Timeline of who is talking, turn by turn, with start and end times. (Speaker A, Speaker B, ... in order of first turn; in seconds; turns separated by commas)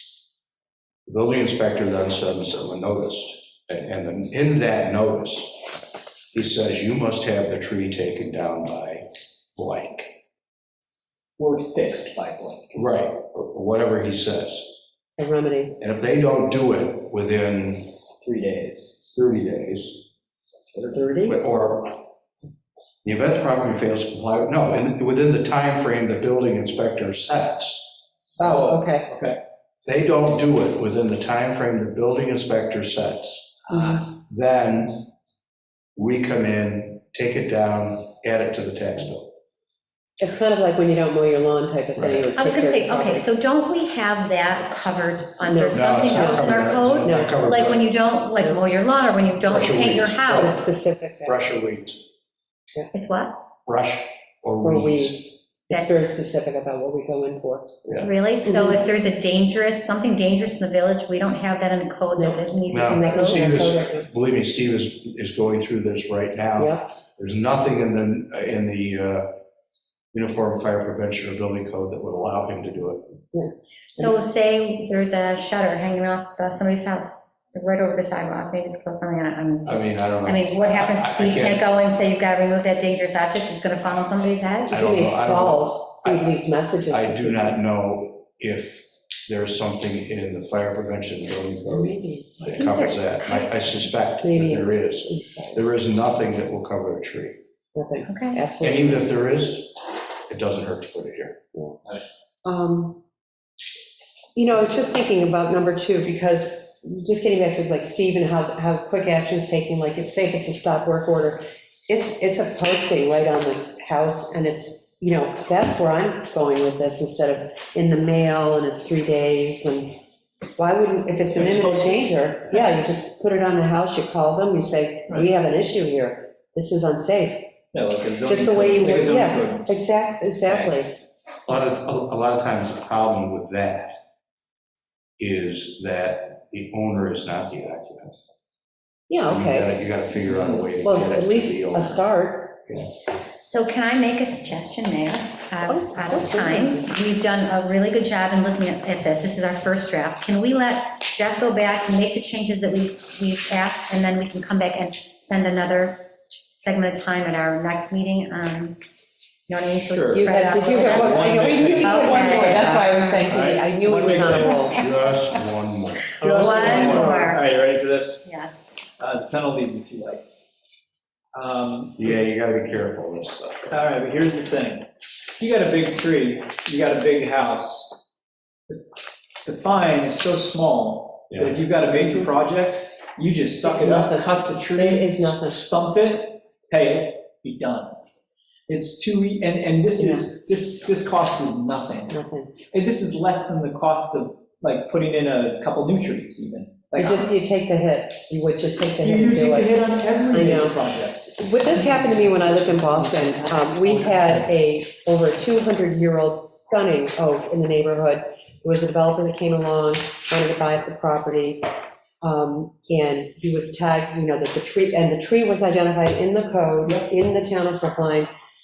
Speaker A: 1.1-5.7, Speaker A: 6.3-10.2, Speaker B: 11.4-12.8, Speaker A: 12.7-14.8, Speaker C: 15.2-15.8, Speaker A: 15.8-17.9, Speaker B: 18.2-19.1, Speaker A: 19.1-20.1, Speaker C: 20.7-21.4, Speaker A: 21.2-22.1, Speaker A: 23.0-28.0, Speaker C: 28.4-29.1, Speaker B: 28.4-29.4, Speaker A: 29.8-35.0, Speaker C: 33.7-34.0, Speaker A: 36.0-39.3, Speaker C: 40.2-43.2, Speaker A: 42.0-42.3, Speaker D: 42.4-50.5, Speaker C: 45.4-47.4, Speaker A: 45.7-47.8, Speaker A: 49.4-50.7, Speaker C: 50.3-51.3, Speaker A: 51.2-52.0, Speaker D: 52.9-53.4, Speaker A: 53.6-55.2, Speaker C: 54.6-58.8, Speaker D: 58.0-63.6, Speaker C: 62.1-64.1, Speaker A: 62.7-69.3, Speaker C: 66.6-66.9, Speaker A: 70.1-73.2, Speaker C: 73.3-74.2, Speaker D: 73.9-84.7, Speaker A: 79.6-81.7, Speaker C: 84.7-87.6, Speaker A: 84.7-86.3, Speaker A: 86.9-97.4, Speaker C: 91.7-92.6, Speaker D: 92.5-93.7, Speaker C: 94.2-95.6, Speaker C: 97.7-99.0, Speaker D: 98.1-98.4, Speaker A: 98.6-101.4, Speaker C: 102.4-103.0, Speaker C: 104.3-120.0, Speaker C: 120.6-127.6, Speaker B: 121.3-122.6, Speaker B: 127.7-129.8, Speaker C: 128.2-130.9, Speaker B: 130.4-130.7, Speaker A: 131.5-133.9, Speaker A: 135.2-138.2, Speaker C: 139.1-139.7, Speaker A: 139.2-142.1, Speaker B: 140.2-140.6, Speaker C: 140.8-142.6, Speaker D: 143.4-158.8, Speaker C: 145.7-146.9, Speaker D: 159.5-163.2, Speaker B: 159.9-164.6, Speaker C: 160.1-164.8, Speaker A: 164.3-166.2, Speaker D: 164.5-164.8, Speaker C: 166.2-167.3, Speaker D: 166.2-167.4, Speaker B: 166.2-168.3, Speaker D: 168.2-168.6, Speaker B: 169.0-170.2, Speaker B: 171.3-172.1, Speaker A: 171.9-173.8, Speaker B: 173.7-174.9, Speaker B: 175.4-178.0, Speaker B: 179.4-188.0, Speaker C: 183.6-185.6, Speaker B: 188.7-192.1, Speaker C: 190.0-190.2, Speaker C: 192.1-192.5, Speaker B: 192.7-197.3, Speaker C: 196.9-199.8, Speaker B: 199.0-201.3, Speaker C: 200.3-200.8, Speaker C: 201.3-218.3, Speaker B: 201.8-204.1